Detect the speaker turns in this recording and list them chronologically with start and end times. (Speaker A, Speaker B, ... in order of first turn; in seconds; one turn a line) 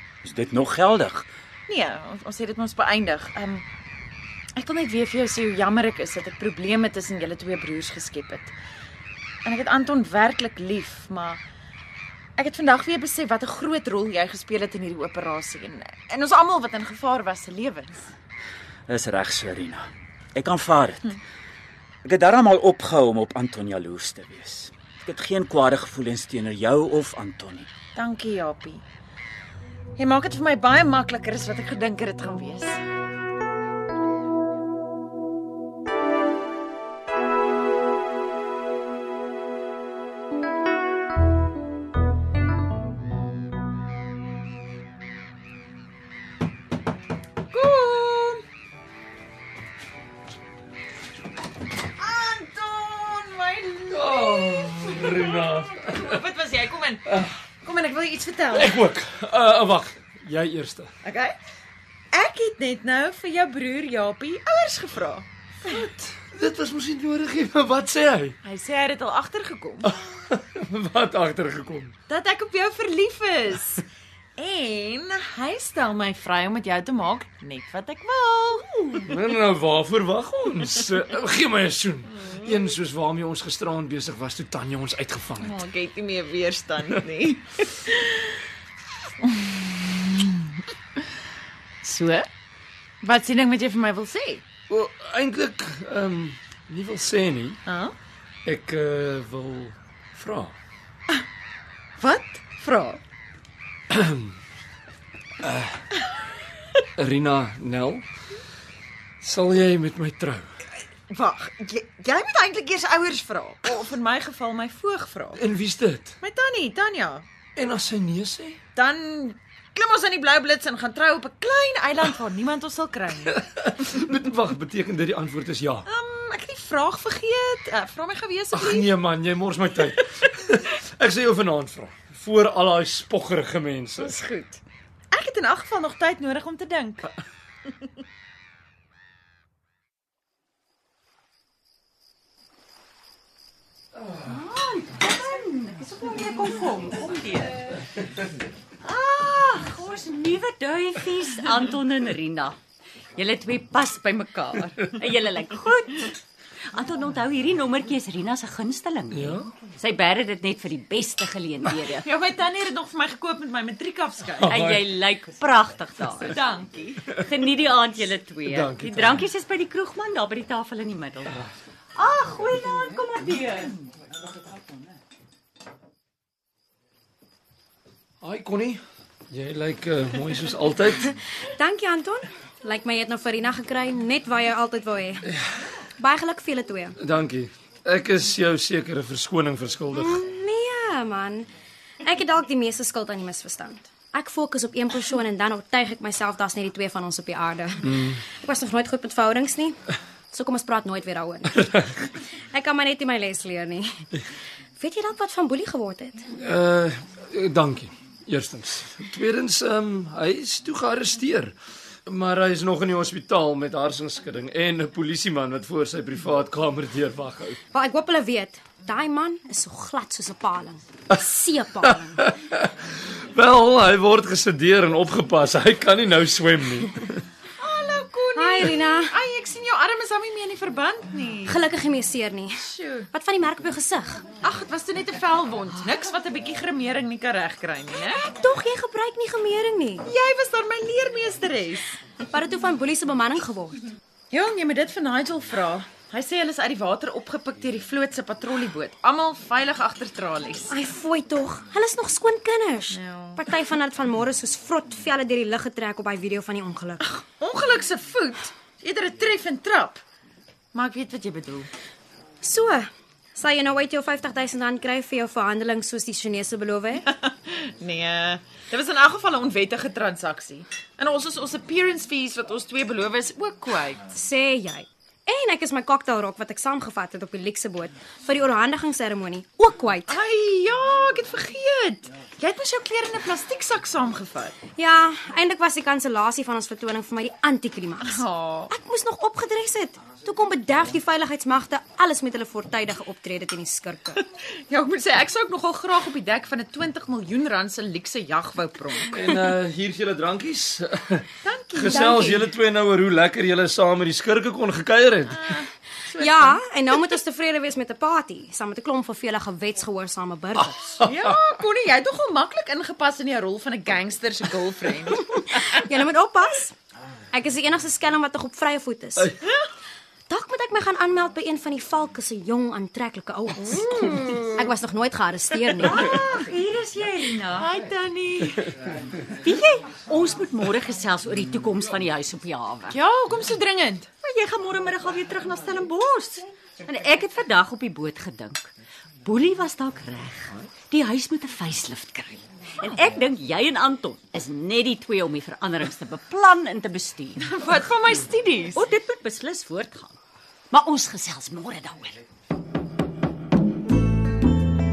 Speaker A: 0.2-1.3
Speaker B: 1.7-3.6
Speaker B: 4.5-8.5
Speaker B: 9.4-11.4
Speaker B: 12.4-18.1
Speaker A: 18.9-21.1
Speaker A: 22.0-27.7
Speaker B: 27.9-28.8
Speaker B: 30.0-32.8
Speaker B: 47.5-48.4
Speaker B: 52.0-57.0
Speaker C: 53.9-56.2
Speaker B: 57.6-58.8
Speaker C: 58.5-60.9
Speaker B: 61.0-61.4
Speaker B: 62.1-65.3
Speaker C: 65.7-68.3
Speaker B: 68.4-69.9
Speaker C: 70.0-71.9
Speaker B: 72.1-73.8
Speaker B: 74.4-79.0
Speaker C: 79.1-85.7
Speaker B: 85.4-88.4
Speaker B: 89.2-91.1
Speaker B: 91.8-92.3
Speaker B: 93.0-94.4
Speaker C: 94.7-97.6
Speaker B: 97.7-97.9
Speaker C: 98.4-100.5
Speaker B: 102.0-103.0
Speaker C: 103.9-104.3
Speaker C: 105.4-106.0
Speaker C: 107.0-108.0
Speaker C: 109.2-110.5
Speaker B: 110.8-115.4
Speaker C: 115.3-116.2
Speaker B: 116.2-117.2
Speaker C: 117.5-118.6
Speaker B: 118.8-123.4
Speaker C: 123.3-125.9
Speaker B: 125.9-128.9
Speaker C: 128.5-134.2
Speaker B: 134.0-137.1
Speaker D: 144.2-147.6
Speaker D: 148.8-152.6
Speaker D: 153.1-156.2
Speaker D: 156.7-162.1
Speaker C: 159.1-159.4
Speaker B: 162.0-164.6
Speaker C: 164.4-164.8
Speaker D: 164.4-166.3
Speaker B: 166.3-167.0
Speaker D: 167.1-171.4
Speaker C: 168.5-169.3
Speaker D: 171.9-173.7
Speaker C: 178.2-181.1
Speaker E: 181.6-185.3
Speaker E: 186.0-186.9
Speaker C: 187.0-190.2
Speaker E: 189.9-191.5
Speaker E: 192.0-199.8
Speaker C: 197.8-198.2
Speaker E: 200.3-203.9
Speaker E: 204.8-206.2
Speaker C: 206.4-211.5
Speaker C: 212.1-217.6
Speaker E: 217.7-222.2
Speaker C: 221.8-222.7
Speaker C: 223.3-227.2
Speaker B: 227.6-231.6
Speaker E: 228.3-229.2
Speaker E: 231.4-234.3
Speaker B: 232.6-233.1
Speaker B: 234.4-238.2
Speaker E: 238.0-240.1
Speaker B: 240.0-241.8
Speaker E: 242.2-243.8
Speaker B: 244.3-250.7
Speaker E: 250.7-257.1
Speaker B: 252.9-253.4
Speaker B: 257.0-260.0
Speaker B: 260.7-261.7
Speaker E: 262.4-267.1
Speaker B: 267.1-274.0
Speaker E: 274.1-280.2
Speaker B: 280.1-284.6
Speaker E: 284.8-294.2
Speaker B: 288.0-288.7
Speaker B: 294.4-299.4
Speaker C: 299.1-305.4
Speaker B: 301.4-302.4
Speaker B: 305.3-306.6
Speaker E: 306.1-311.1
Speaker B: 311.1-315.2
Speaker E: 315.2-316.7
Speaker E: 317.3-319.3
Speaker E: 320.3-326.0
Speaker D: 325.8-327.7
Speaker B: 327.6-328.7
Speaker D: 329.4-333.0
Speaker B: 332.9-334.1
Speaker D: 334.2-338.7
Speaker D: 339.2-347.5
Speaker B: 347.4-348.8
Speaker D: 348.7-350.2
Speaker D: 350.7-352.2